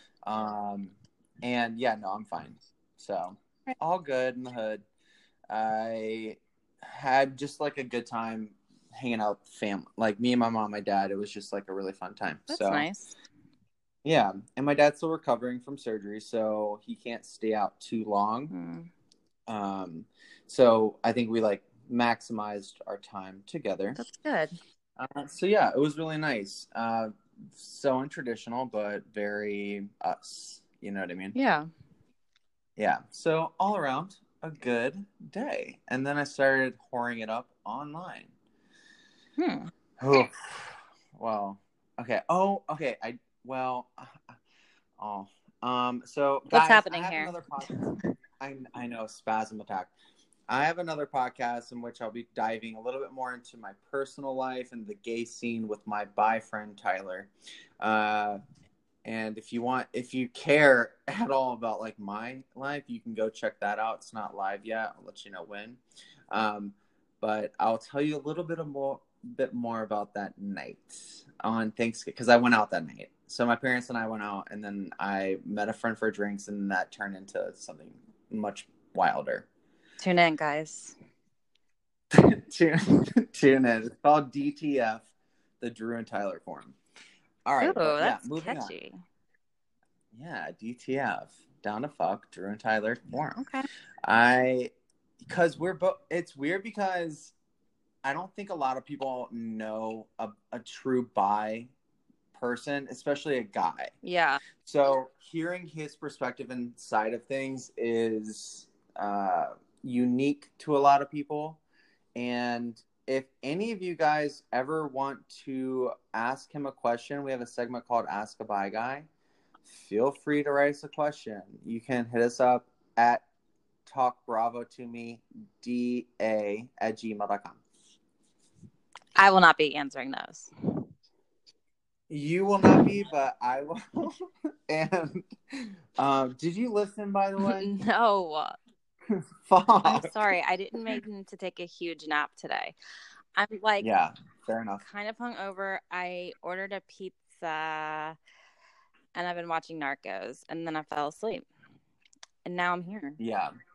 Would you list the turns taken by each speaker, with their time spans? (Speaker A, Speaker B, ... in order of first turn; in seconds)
Speaker A: 0.2-4.8, 5.5-12.9, 14.0-18.5, 19.5-24.0, 25.0-31.3, 32.8-38.3, 40.0-44.4, 45.0-49.9, 50.5-58.4, 59.0-65.8, 66.3-79.5, 82.1-85.1, 85.6-86.8, 87.5-88.7, 90.1-93.4, 94.0-97.3, 98.0-101.7, 102.3-103.9, 104.6-111.6, 112.2-119.1, 119.6-123.2, 123.8-127.6, 132.1-137.7, 139.1-140.2, 143.8-144.8, 153.2-153.5
Speaker B: 12.5-13.1, 18.5-18.9, 23.9-24.5, 31.3-31.7, 39.4-39.7, 46.5-47.4, 80.0-80.9, 87.6-89.0, 93.4-93.7, 104.0-104.4, 129.2-130.5, 137.4-138.6, 139.8-142.7, 143.3-143.9, 144.8-148.2, 149.1-151.5, 152.4-153.2